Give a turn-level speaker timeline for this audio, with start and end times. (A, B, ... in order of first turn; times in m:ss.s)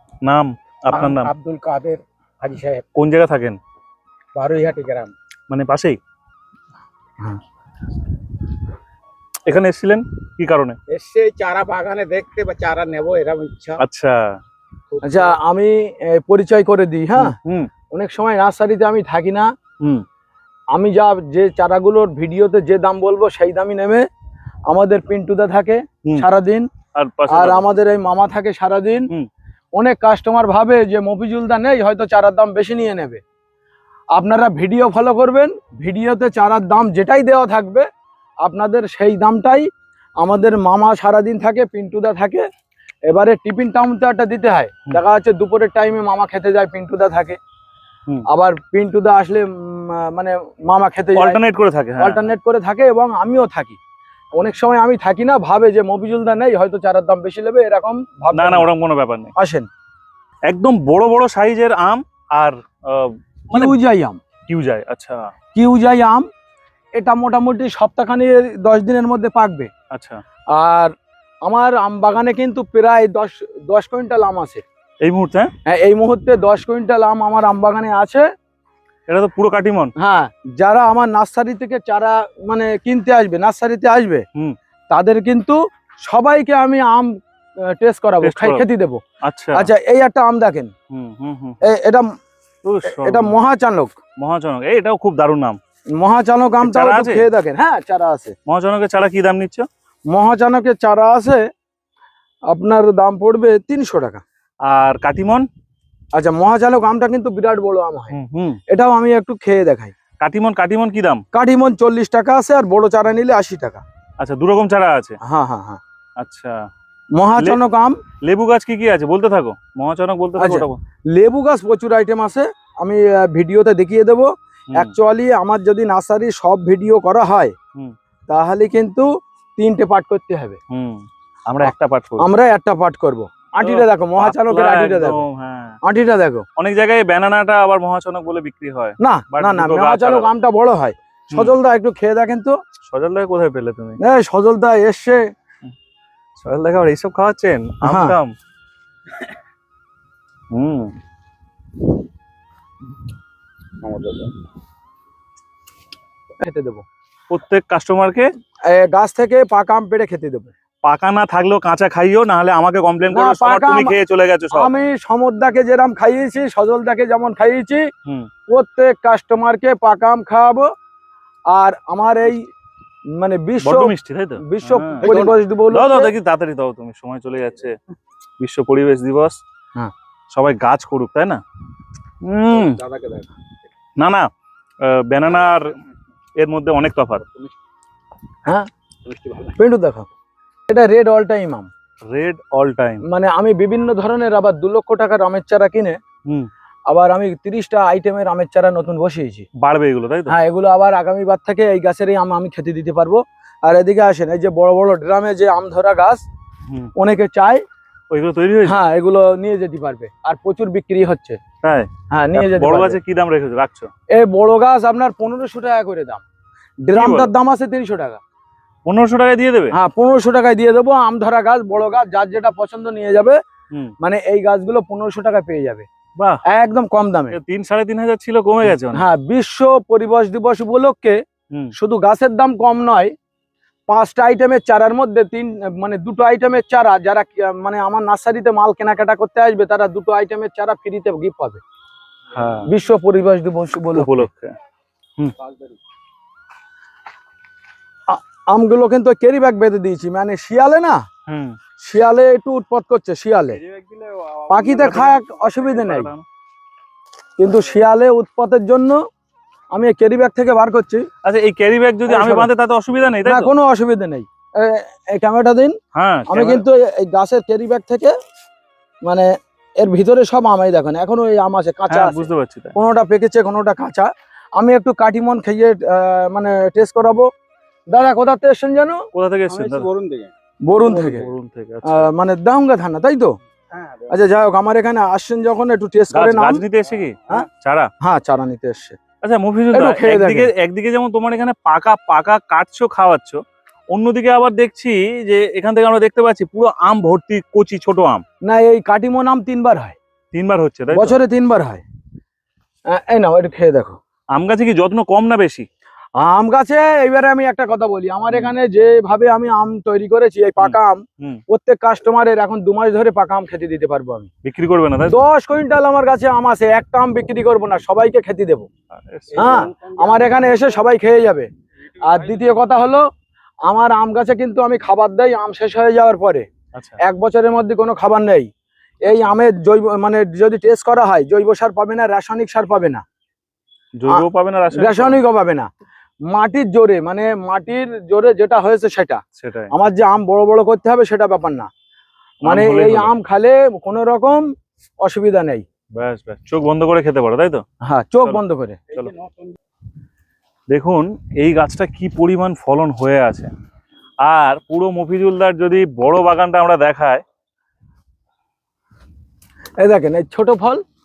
0:00.2-0:01.3 A
0:00.9-0:02.8 B
0:02.9-0:03.6 A
0:04.3-0:05.1 B
0:05.5-0:06.0 A
0:09.4-0:10.8 A
0:10.9-0:13.8 B
0:13.8-0:14.4 A
0:14.9-0:15.4 B
0:15.0-0:17.3 C
0:17.2-0:17.7 A
0:17.9-0:19.5 C
0:20.7-0:24.0 C
0:24.7-0:26.7 C
0:26.9-0:27.7 A
0:27.3-0:29.1 C
0:29.7-0:33.2 C
0:34.1-0:37.9 C
0:38.4-0:39.7 C
0:40.2-0:42.4 C
0:43.1-0:47.4 C
0:48.3-0:51.4 C
0:51.1-0:52.3 A
0:52.0-0:53.8 C
0:54.3-0:58.7 C
0:58.3-0:59.3 A
0:59.3-0:59.7 C
1:00.4-1:03.8 A
1:03.5-1:04.2 C
1:04.5-1:05.3 A
1:05.5-1:06.3 C
1:07.0-1:09.7 C
1:09.9-1:10.2 A
1:10.5-1:14.6 C
1:15.0-1:15.5 A
1:15.6-1:18.2 C
1:19.1-1:19.9 A
1:20.0-1:24.2 C
1:24.9-1:29.0 C
1:28.2-1:28.6 A
1:29.2-1:29.7 A
1:29.5-1:30.7 C
1:30.9-1:31.6 A
1:31.6-1:32.1 C
1:32.6-1:33.4 A
1:32.8-1:34.0 C
1:34.2-1:35.6 A
1:36.0-1:38.3 C
1:36.6-1:37.2 A
1:38.5-1:39.7 A
1:40.1-1:41.5 C
1:42.5-1:44.2 C
1:44.6-1:45.5 A
1:46.1-1:48.2 C
1:48.1-1:48.6 A
1:48.7-1:49.9 C
1:50.2-1:51.2 A
1:51.3-1:53.8 C
1:54.2-1:55.2 A
1:55.2-1:55.8 C
1:56.2-1:56.7 A
1:57.2-1:58.0 C
1:58.2-2:00.8 A
2:00.4-2:07.5 C
2:08.3-2:10.6 C
2:10.7-2:12.3 A
2:11.6-2:15.2 C
2:13.6-2:15.8 A
2:15.8-2:16.4 C
2:16.6-2:20.3 A
2:19.0-2:22.6 C
2:21.3-2:21.5 A
2:22.9-2:24.0 A
2:24.0-2:25.2 C
2:26.4-2:28.3 A
2:27.8-2:28.2 C
2:30.5-2:30.9 A
2:33.8-2:34.3 B
2:36.4-2:36.8 C
2:37.3-2:38.3 A
2:38.7-2:40.5 C
2:40.8-2:44.7 A
2:43.1-2:44.0 C
2:44.5-2:47.9 C
2:48.5-2:50.7 C
2:51.5-2:52.5 C
2:53.1-2:56.1 C
2:53.6-2:55.1 A
2:55.0-2:55.4 B
2:55.7-2:57.8 A
2:58.4-2:59.4 A
3:00.3-3:01.4 A
3:02.2-3:02.8 A
3:02.5-3:03.3 B
3:04.0-3:04.3 A
3:04.8-3:05.7 A
3:06.4-3:07.2 A
3:09.0-3:09.6 B
3:09.6-3:10.1 C
3:10.7-3:11.7 C
3:12.1-3:13.0 A
3:13.0-3:16.0 C
3:16.9-3:19.5 C
3:19.6-3:20.4 A
3:20.3-3:26.2 C
3:26.7-3:26.9 A
3:27.0-3:27.6 C
3:28.1-3:28.8 A
3:28.6-3:31.4 C
3:31.6-3:33.9 A
3:32.1-3:33.0 C
3:34.1-3:36.2 C
3:36.8-3:38.2 C
3:36.9-3:37.3 A
3:38.8-3:39.7 A
3:39.7-3:43.4 C
3:44.0-3:45.9 C
3:46.4-3:47.4 C
3:47.3-3:49.1 A
3:48.9-3:51.2 C
3:51.7-3:53.1 C
3:53.9-4:01.6 C
4:02.3-4:02.7 A
4:02.7-4:04.3 C
4:03.9-4:04.5 A
4:08.1-4:11.0 C
4:11.3-4:11.6 A
4:11.8-4:13.6 C
4:13.6-4:15.3 B
4:14.5-4:16.1 C
4:14.6-4:16.2 A
4:17.4-4:19.0 C
4:19.7-4:21.1 C
4:21.2-4:23.5 A
4:22.1-4:22.5 C
4:23.2-4:25.8 C
4:25.9-4:26.6 A
4:26.3-4:28.1 C
4:29.0-4:37.3 C
4:31.9-4:32.8 A
4:37.9-4:39.0 C
4:39.1-4:39.9 A
4:39.5-4:40.3 B
4:40.6-4:41.3 C
4:40.8-4:42.1 A
4:41.8-4:43.4 C
4:43.7-4:44.2 B
4:44.1-4:46.6 C
4:46.1-4:47.9 A
4:48.0-4:49.0 C
4:49.2-4:58.2 A
4:49.7-4:50.5 C
4:58.4-5:00.0 C
5:00.3-5:01.2 A
5:00.9-5:01.8 C
5:02.9-5:04.0 C
5:04.3-5:05.7 A
5:06.2-5:14.3 C
5:10.6-5:11.4 A
5:14.4-5:15.2 A
5:15.1-5:18.7 C
5:18.9-5:19.7 A
5:19.3-5:20.6 B
5:19.4-5:21.5 C
5:22.0-5:23.1 C
5:22.2-5:22.4 B
5:23.6-5:26.4 C
5:26.7-5:27.0 A
5:27.0-5:28.5 C
5:29.0-5:33.0 C
5:34.0-5:35.2 A
5:34.1-5:35.7 C
5:36.3-5:41.7 C
5:39.4-5:39.7 A
5:42.4-5:43.1 A
5:42.4-5:44.5 C
5:45.0-5:45.6 C
5:45.9-5:47.6 A
5:47.8-5:48.8 C
5:48.9-5:49.4 B
5:50.7-5:53.5 A
5:54.2-5:57.2 A
5:59.8-6:00.8 C